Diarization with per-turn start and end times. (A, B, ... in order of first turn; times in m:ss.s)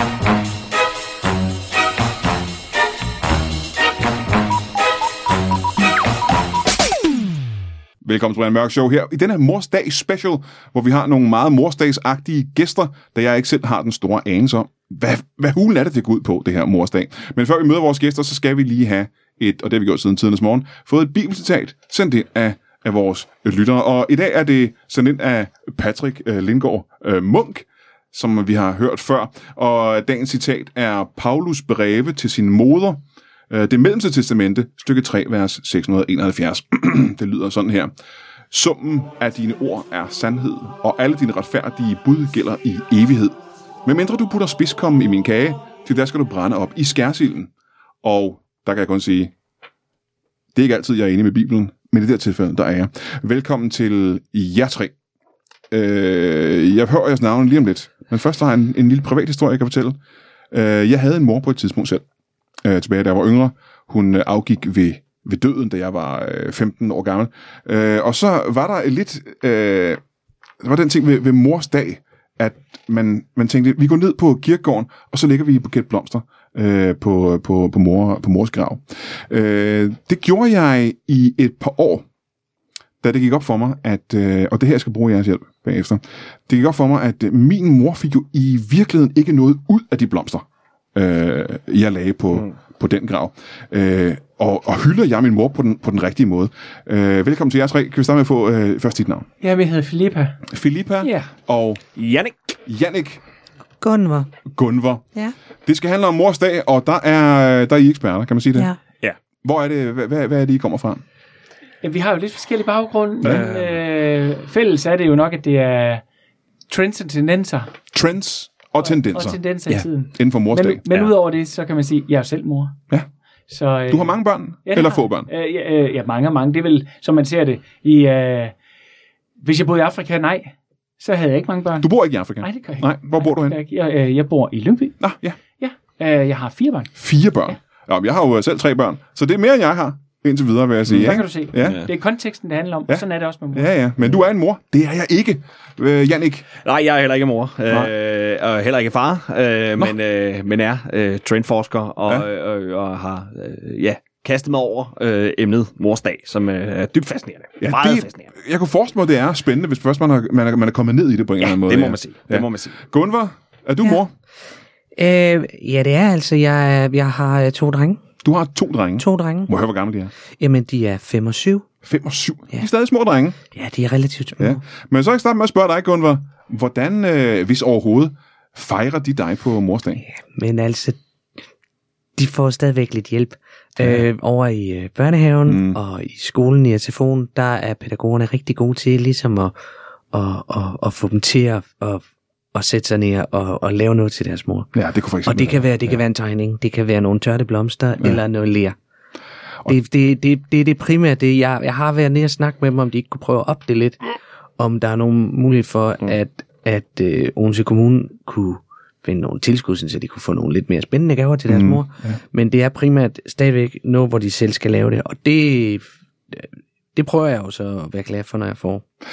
0:08.0-0:37.9 A
0:38.5-0:47.5 A
0:48.0-0:49.3 A
0:50.6-0:54.9 A
0:55.7-1:00.0 A
1:00.5-1:02.0 A
1:02.6-1:10.0 A
1:10.6-1:22.0 A
1:23.0-1:39.3 A
1:39.4-1:40.4 B
1:40.5-1:41.8 A
1:41.0-1:41.3 B
1:42.0-1:42.5 C
1:42.7-1:43.2 A
1:43.8-1:44.3 D
1:44.5-1:45.1 A
1:45.6-1:48.7 A
1:49.4-1:51.0 A
1:51.8-1:56.0 B
1:53.2-1:53.8 C
1:56.7-1:57.7 B
1:57.9-2:00.8 A
1:58.8-2:02.8 B
2:03.5-2:08.5 B
2:03.9-2:05.3 A
2:09.4-2:11.9 B
2:11.8-2:13.6 A
2:12.4-2:15.0 B
2:15.0-2:15.4 A
2:15.6-2:16.9 B
2:17.0-2:21.9 A
2:20.9-2:21.9 C
2:20.9-2:23.7 B
2:22.9-2:26.5 A
2:26.6-2:38.3 C
2:37.6-2:44.1 A
2:41.4-2:42.8 C
2:45.0-2:48.0 D
2:48.2-2:50.1 A
2:49.0-2:49.5 D
2:50.4-2:51.6 D
2:51.8-2:53.4 A
2:53.5-2:54.6 D
2:54.4-3:00.0 A
3:00.1-3:01.0 D
3:02.2-3:09.5 D
3:05.5-3:05.8 A
3:10.1-3:14.7 D
3:14.7-3:16.0 A
3:15.2-3:18.8 D
3:19.7-3:24.0 D
3:24.6-3:38.8 D
3:31.5-3:32.2 A